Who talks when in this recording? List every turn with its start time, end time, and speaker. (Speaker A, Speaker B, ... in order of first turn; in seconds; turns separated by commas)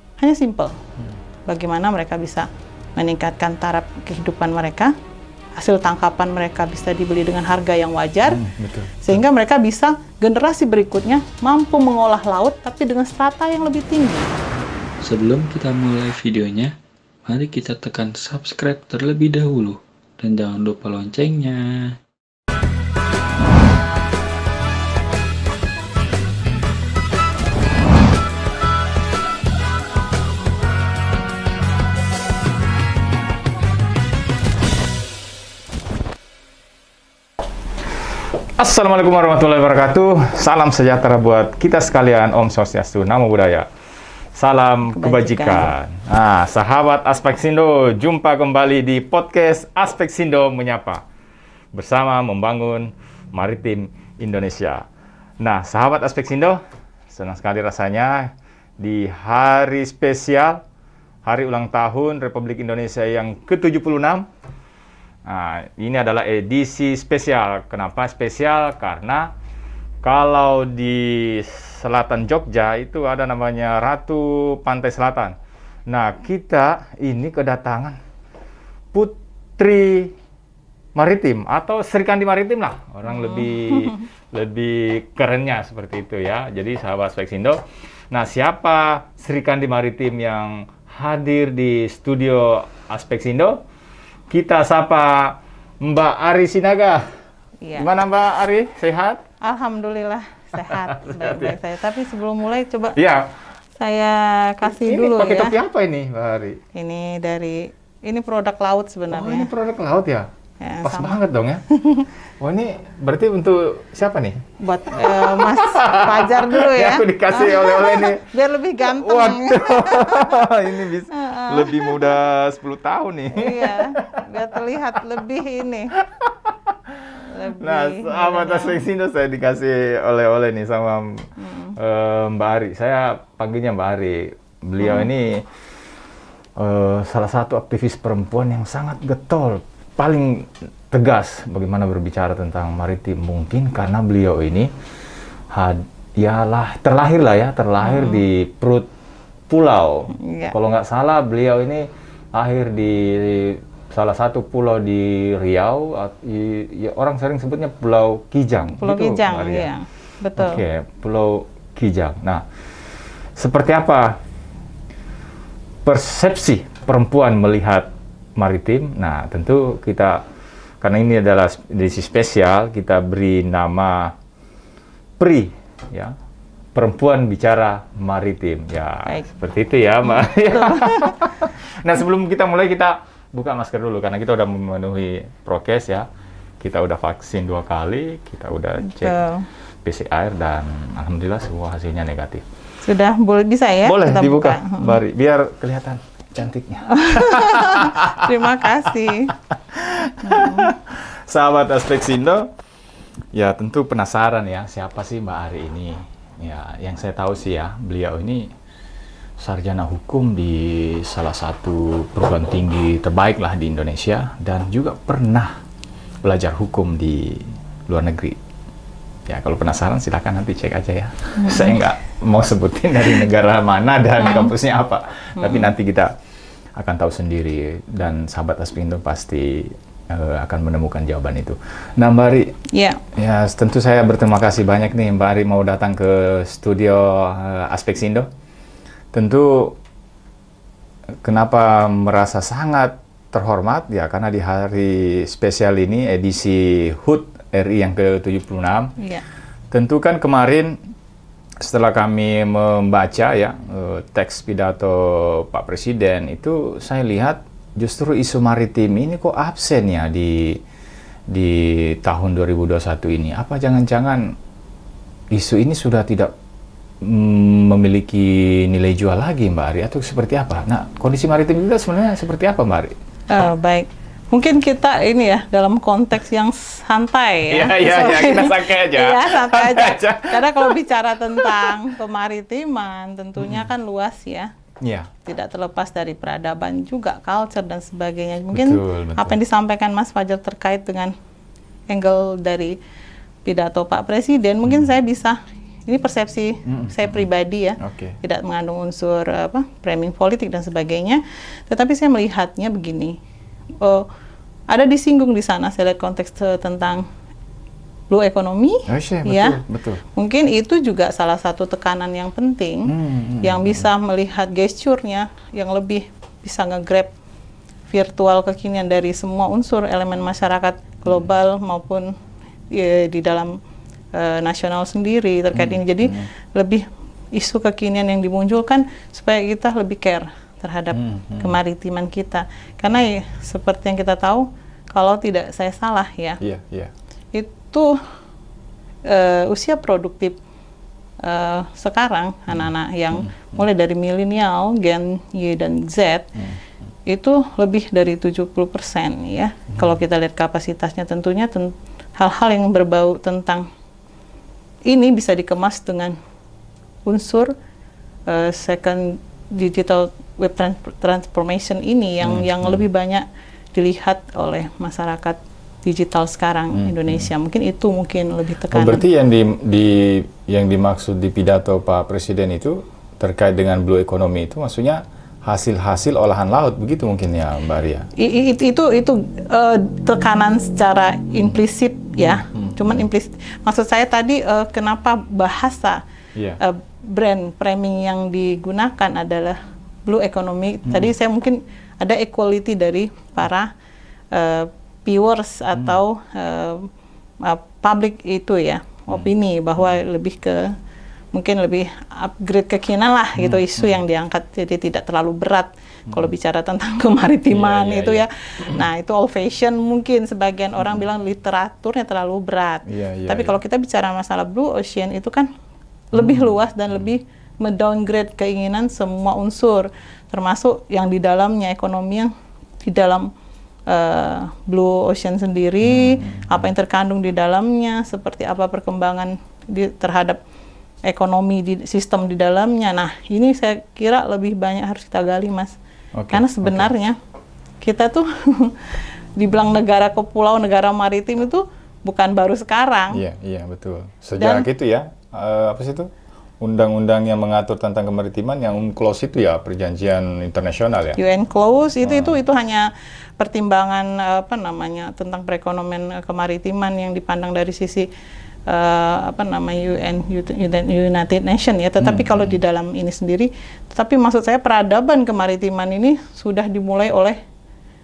Speaker A: 0.2-0.8, Speaker A: 1.5-4.9, Speaker A: 5.6-8.4, Speaker B: 8.3-9.2, Speaker A: 9.0-14.3, Speaker C: 15.0-22.0, Speaker B: 38.6-43.7, Speaker B: 44.4-51.0, Speaker A: 44.8-45.7, Speaker B: 51.7-54.9, Speaker B: 55.4-60.6, Speaker B: 61.2-64.2, Speaker B: 65.2-69.3, Speaker B: 70.0-75.3, Speaker B: 75.9-78.0, Speaker B: 78.9-80.1, Speaker B: 81.0-87.6, Speaker A: 83.1-84.0, Speaker B: 88.1-93.6, Speaker B: 94.3-97.0, Speaker A: 97.6-97.9, Speaker B: 97.8-99.2, Speaker A: 99.4-103.0, Speaker B: 100.5-101.6, Speaker B: 103.0-103.3, Speaker A: 103.8-105.5, Speaker B: 104.6-106.6, Speaker A: 106.7-109.5, Speaker B: 109.1-110.3, Speaker A: 110.6-111.2, Speaker B: 110.8-111.6, Speaker A: 111.7-112.1, Speaker B: 112.4-114.4, Speaker A: 114.6-120.6, Speaker B: 114.9-124.3, Speaker A: 121.1-122.1, Speaker A: 123.3-125.9, Speaker B: 125.9-135.4, Speaker A: 127.2-128.8, Speaker A: 131.4-131.8, Speaker A: 134.8-135.1, Speaker B: 136.6-144.7, Speaker B: 145.5-148.9, Speaker A: 147.8-148.2, Speaker B: 149.5-159.7, Speaker A: 150.1-150.5, Speaker A: 158.8-160.6, Speaker B: 160.4-162.4, Speaker B: 163.4-164.2, Speaker B: 165.8-170.2, Speaker B: 170.8-174.1, Speaker B: 175.2-176.1, Speaker B: 176.7-186.1, Speaker A: 180.1-181.2, Speaker B: 186.6-189.2, Speaker A: 188.8-189.5, Speaker B: 189.8-192.4, Speaker A: 192.8-195.0, Speaker B: 193.8-202.5, Speaker A: 196.9-199.3, Speaker A: 200.2-200.7, Speaker B: 203.3-208.5, Speaker B: 209.4-215.6, Speaker B: 216.2-218.4, Speaker B: 219.3-226.1, Speaker A: 221.4-221.8, Speaker A: 224.2-224.5, Speaker A: 225.4-225.7, Speaker B: 226.8-232.5, Speaker A: 232.7-233.0, Speaker B: 233.1-238.3, Speaker B: 239.1-239.8, Speaker B: 241.2-248.9, Speaker A: 249.0-249.2, Speaker B: 249.7-250.8, Speaker B: 251.6-260.6, Speaker B: 261.3-264.3, Speaker B: 265.3-266.3, Speaker B: 267.0-272.9, Speaker A: 273.3-284.5, Speaker B: 277.5-280.8, Speaker B: 281.3-281.8, Speaker B: 283.4-283.7, Speaker B: 284.8-285.1, Speaker A: 285.2-291.1, Speaker B: 288.5-289.4, Speaker A: 291.9-292.8, Speaker A: 293.4-303.2, Speaker B: 296.6-297.3, Speaker B: 297.8-298.2, Speaker A: 303.8-304.1, Speaker A: 304.7-307.0, Speaker A: 308.1-309.6, Speaker B: 308.9-310.0, Speaker A: 310.1-317.1, Speaker B: 312.9-313.9, Speaker A: 317.9-322.1, Speaker A: 322.7-323.6, Speaker A: 324.1-336.4, Speaker B: 325.5-326.3, Speaker B: 330.9-331.6, Speaker B: 336.4-336.9, Speaker A: 337.3-337.9, Speaker A: 339.1-340.4, Speaker A: 341.2-346.3, Speaker B: 343.1-343.6, Speaker A: 347.1-353.7, Speaker A: 354.9-356.1, Speaker A: 357.1-357.5, Speaker A: 358.3-369.0, Speaker B: 362.2-362.8, Speaker B: 366.7-367.3, Speaker B: 368.7-378.1, Speaker A: 378.2-386.0, Speaker B: 382.2-383.1, Speaker A: 386.6-393.7, Speaker B: 390.9-391.1, Speaker A: 394.3-396.9, Speaker B: 395.7-396.0, Speaker A: 397.4-400.7, Speaker A: 401.3-415.5, Speaker B: 403.4-404.0, Speaker B: 407.5-408.8, Speaker B: 412.9-413.6, Speaker A: 416.1-422.3, Speaker B: 416.1-416.5, Speaker A: 422.8-423.3, Speaker A: 423.9-430.4, Speaker B: 425.8-426.7, Speaker A: 431.1-435.8, Speaker B: 436.1-436.9, Speaker A: 436.3-437.1, Speaker A: 437.8-443.2, Speaker B: 443.1-446.1, Speaker A: 444.4-444.7, Speaker B: 446.6-451.2, Speaker A: 451.2-458.1, Speaker B: 452.0-452.4, Speaker A: 458.7-467.4, Speaker B: 462.0-462.6